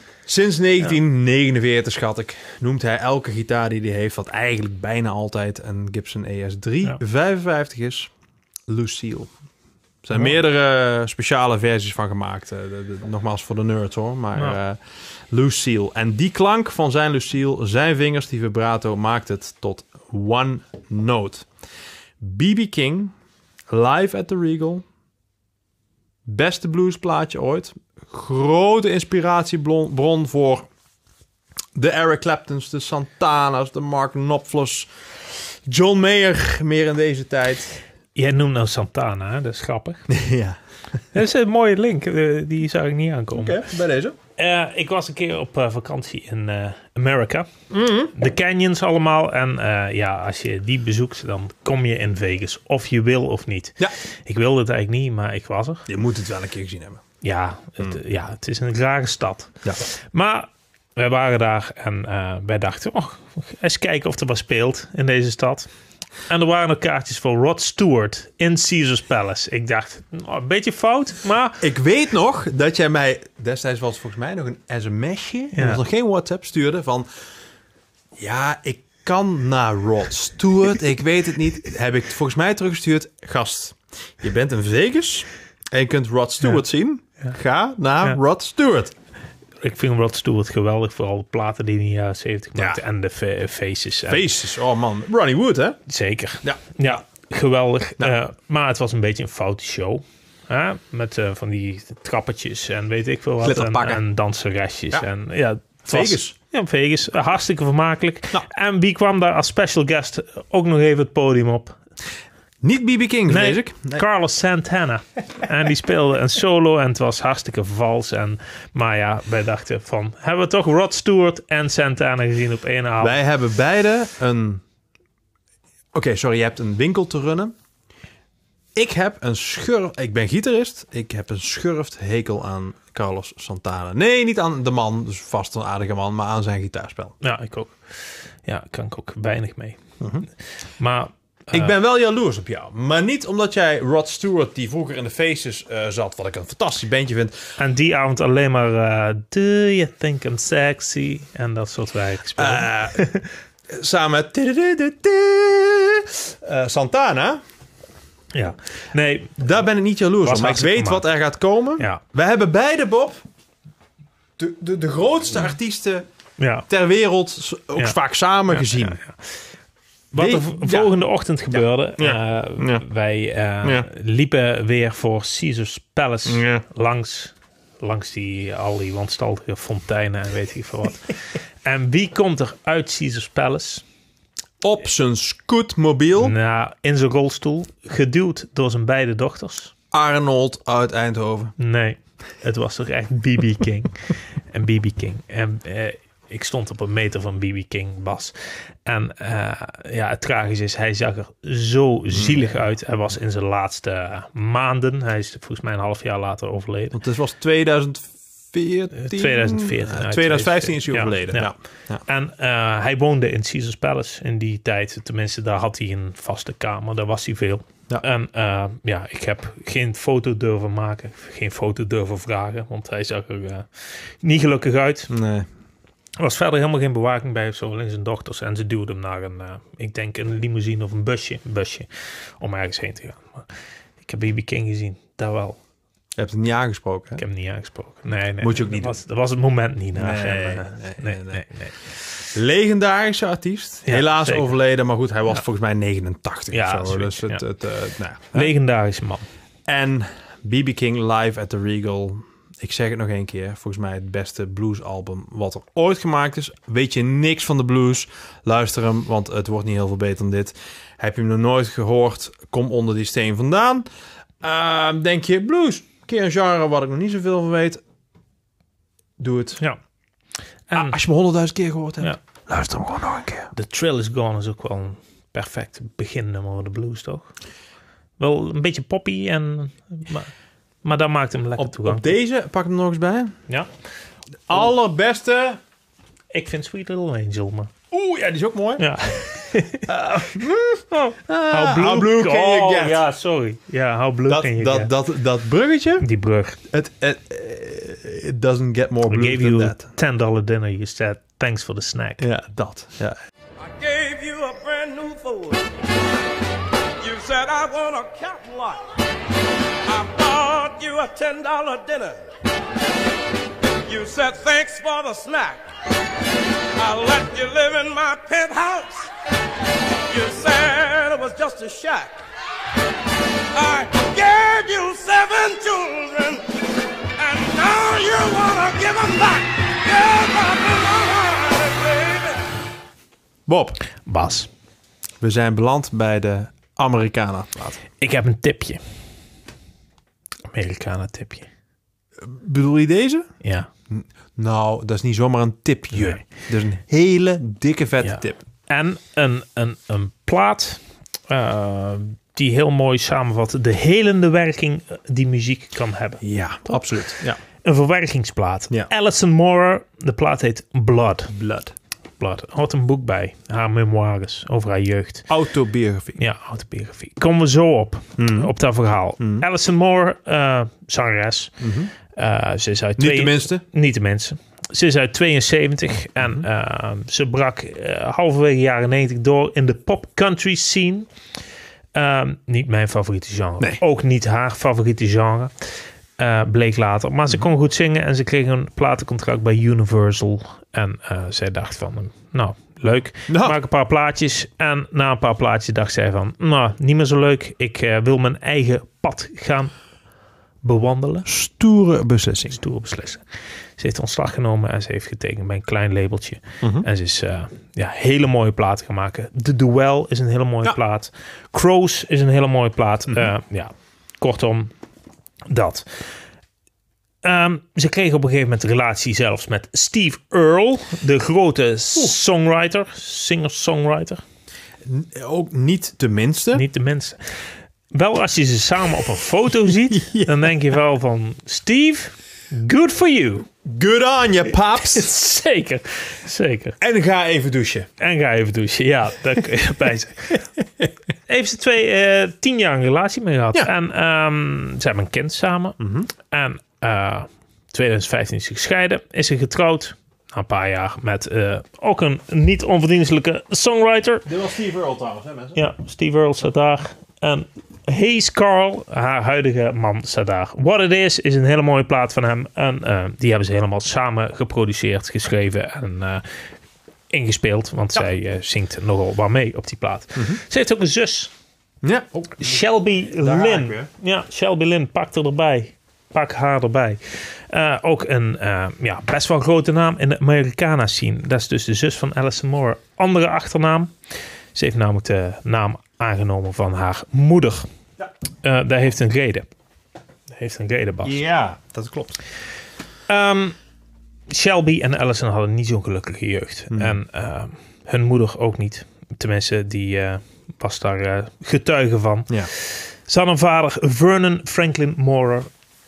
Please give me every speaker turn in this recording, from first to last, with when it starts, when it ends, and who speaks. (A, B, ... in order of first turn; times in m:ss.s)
0:00.2-0:08.1 A
0:08.7-0:09.3 A
0:10.0-0:21.5 A
0:22.2-0:23.1 A
0:23.7-0:24.8 A
0:26.2-0:30.7 A
0:31.7-0:37.8 A
0:38.1-0:40.0 B
0:40.1-0:40.6 A
0:41.1-0:43.6 B
0:43.3-0:44.2 A
0:44.4-0:47.5 B
0:47.7-0:48.1 A
0:48.1-0:55.9 B
0:55.9-0:57.0 A
0:57.2-1:05.7 B
1:06.3-1:11.6 B
1:11.6-1:17.1 A
1:15.5-1:15.8 B
1:18.2-1:28.9 A
1:29.6-1:34.2 B
1:32.6-1:32.8 A
1:34.1-1:35.8 A
1:35.9-1:51.8 B
1:43.4-1:44.0 A
1:45.8-1:46.3 A
1:52.6-1:54.0 A
1:53.3-2:03.2 B
2:03.0-2:04.6 A
2:05.9-2:07.5 A
2:08.7-2:17.2 A
2:17.2-2:19.8 B
2:20.0-2:20.2 A
2:20.8-2:21.7 B
2:21.5-2:27.6 A
2:27.6-2:33.3 B
2:32.4-2:33.0 A
2:33.7-2:37.4 A
2:38.3-2:39.4 B
2:39.4-2:43.2 A
2:40.2-2:41.0 B
2:44.4-2:46.0 A
2:46.4-2:46.7 B
2:46.7-2:49.0 A
2:48.5-2:49.2 B
2:50.1-3:03.8 B
2:50.2-2:50.9 A
2:51.5-2:52.8 A
2:53.6-2:53.9 A
2:56.2-2:56.6 A
3:04.6-3:06.3 A
3:06.2-3:09.7 B
3:09.9-3:11.5 A
3:11.6-3:18.3 B
3:18.8-3:27.0 B
3:22.1-3:22.5 A
3:26.9-3:32.0 A
3:28.9-3:31.5 B
3:32.0-3:45.1 B
3:45.1-3:45.5 A
3:46.2-3:51.9 B
3:52.4-3:53.5 B
3:54.0-3:55.6 B
3:56.2-3:57.2 A
3:57.2-4:01.8 B
3:58.4-3:59.0 A
4:00.0-4:01.5 A
4:02.3-4:08.5 A
4:03.8-4:04.5 B
4:06.5-4:07.4 B
4:08.3-4:09.3 B
4:09.7-4:23.9 A
4:24.4-4:27.8 A
4:29.2-4:29.6 A
4:30.7-4:31.0 B
4:30.7-4:33.5 A
4:33.5-4:37.3 B
4:38.2-4:40.3 B
4:40.8-4:42.1 B
4:41.6-4:43.4 A
4:44.5-4:45.6 A
4:46.3-4:47.7 B
4:47.9-4:49.2 A
4:48.8-4:49.9 B
4:49.9-4:53.0 A
4:50.9-4:54.9 B
4:54.3-4:56.1 A
4:56.0-4:56.6 B
4:56.7-4:59.8 A
4:59.1-5:02.2 B
5:02.2-5:03.2 A
5:03.6-5:05.6 C
5:07.0-5:08.8 C
5:09.8-5:12.2 C
5:13.9-5:15.6 C
5:16.8-5:19.1 C
5:20.1-5:22.2 C
5:23.5-5:26.4 C
5:27.2-5:32.4 C
5:33.5-5:33.8 A
5:34.0-5:34.5 B
5:35.2-5:37.8 A
5:38.0-5:38.8 B
5:40.5-5:41.5 B
5:42.2-5:43.3 A
5:43.4-5:43.7 B
5:43.9-5:48.4 A
5:45.9-5:46.2 B
5:48.0-5:56.8 B
5:56.2-5:57.4 A
5:57.6-6:01.3 B
6:01.3-6:01.7 A
6:02.2-6:05.3 B
6:05.3-6:06.2 A
6:06.2-6:11.6 B
6:08.2-6:08.5 A
6:09.2-6:09.4 A
6:11.6-6:11.9 A
6:12.1-6:21.1 B
6:13.0-6:13.6 A
6:16.2-6:16.4 A
6:21.9-6:25.5 B
6:26.2-6:39.7 B
6:33.3-6:33.6 A
6:40.6-6:41.3 B
6:41.2-6:42.6 A
6:42.5-6:43.2 B
6:43.8-6:54.7 B
6:55.4-6:56.1 B
6:57.2-7:04.2 B
7:04.8-7:06.6 A
7:06.5-7:07.2 B
7:07.9-7:13.5 B
7:09.9-7:10.5 A
7:13.6-7:15.1 A
7:14.8-7:16.8 B
7:16.8-7:17.9 A
7:18.0-7:20.4 B
7:21.3-7:34.3 B
7:25.8-7:26.1 A
7:34.2-7:35.6 A
7:35.5-7:46.2 B
7:47.1-7:51.3 B
7:51.8-7:53.9 A
7:52.4-8:03.9 B
8:04.5-8:07.7 B
8:08.4-8:09.5 B
8:10.3-8:11.2 B
8:11.0-8:12.2 A
8:13.1-8:13.6 B
8:14.3-8:25.5 B
8:16.7-8:17.0 A